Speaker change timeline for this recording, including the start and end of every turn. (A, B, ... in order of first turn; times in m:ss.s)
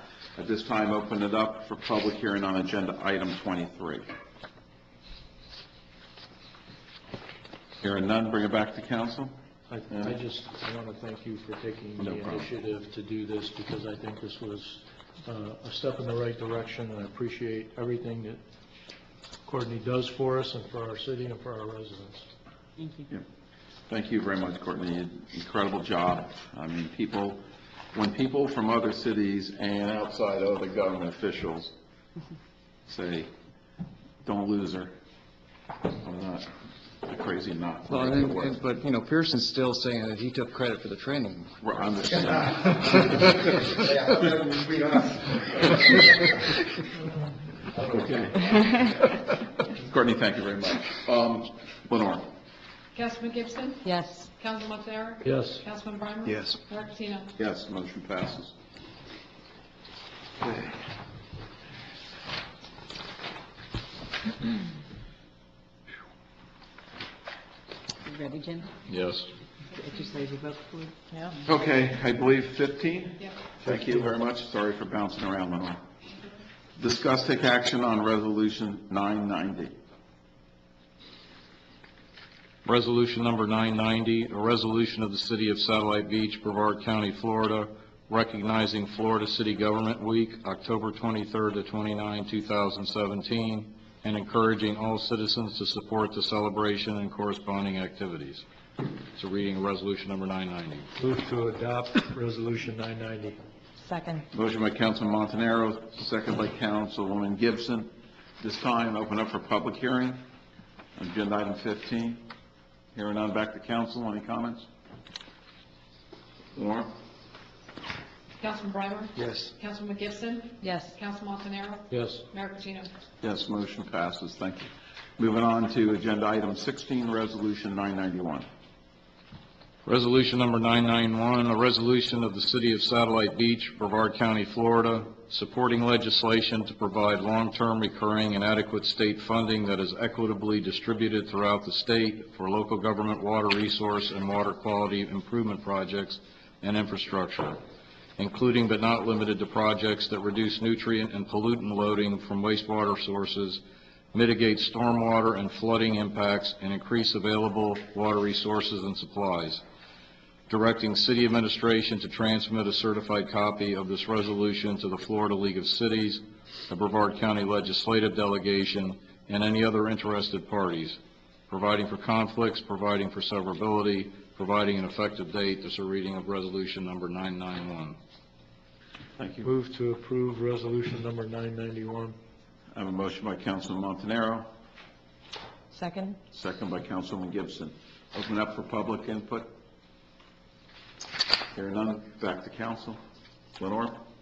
0:00.4-0:04.0 A
0:07.8-0:09.3 A
0:09.7-0:18.4 B
0:12.0-0:12.5 A
0:19.4-0:22.3 B
0:23.9-0:27.4 A
0:27.9-0:31.7 A
0:32.9-0:33.3 A
0:34.2-0:34.9 A
0:35.9-0:36.5 A
0:37.0-0:38.6 A
0:37.9-0:41.5 C
0:41.6-0:44.2 A
0:43.8-0:45.0 C
0:47.9-0:48.6 A
0:49.7-0:52.2 A
0:52.9-0:53.8 D
0:53.8-0:54.3 E
0:54.4-0:57.3 D
0:55.2-0:55.6 B
0:56.2-0:56.5 C
0:57.4-0:58.5 A
1:08.0-1:08.7 E
1:08.9-1:09.3 F
1:09.9-1:11.3 E
1:11.4-1:15.8 A
1:16.8-1:19.7 A
1:22.6-1:38.4 F
1:39.2-1:40.9 F
1:41.0-1:43.4 B
1:43.8-1:44.2 E
1:44.3-1:47.9 A
1:48.4-1:50.2 A
1:51.0-1:52.2 A
1:52.9-1:54.7 A
1:56.5-1:56.9 A
1:58.4-2:02.9 D
2:00.6-2:01.0 E
2:01.9-2:02.2 B
2:03.2-2:08.4 A
2:09.8-2:27.6 F
2:28.2-2:33.6 F
2:34.1-2:39.6 F
2:40.5-2:51.0 F
2:51.5-2:58.0 F
2:59.2-2:59.5 A
2:59.4-3:02.1 B
3:02.7-3:04.5 A
3:05.7-3:06.2 E
3:06.3-3:09.5 A
3:11.5-3:13.0 A
3:13.6-3:14.0 A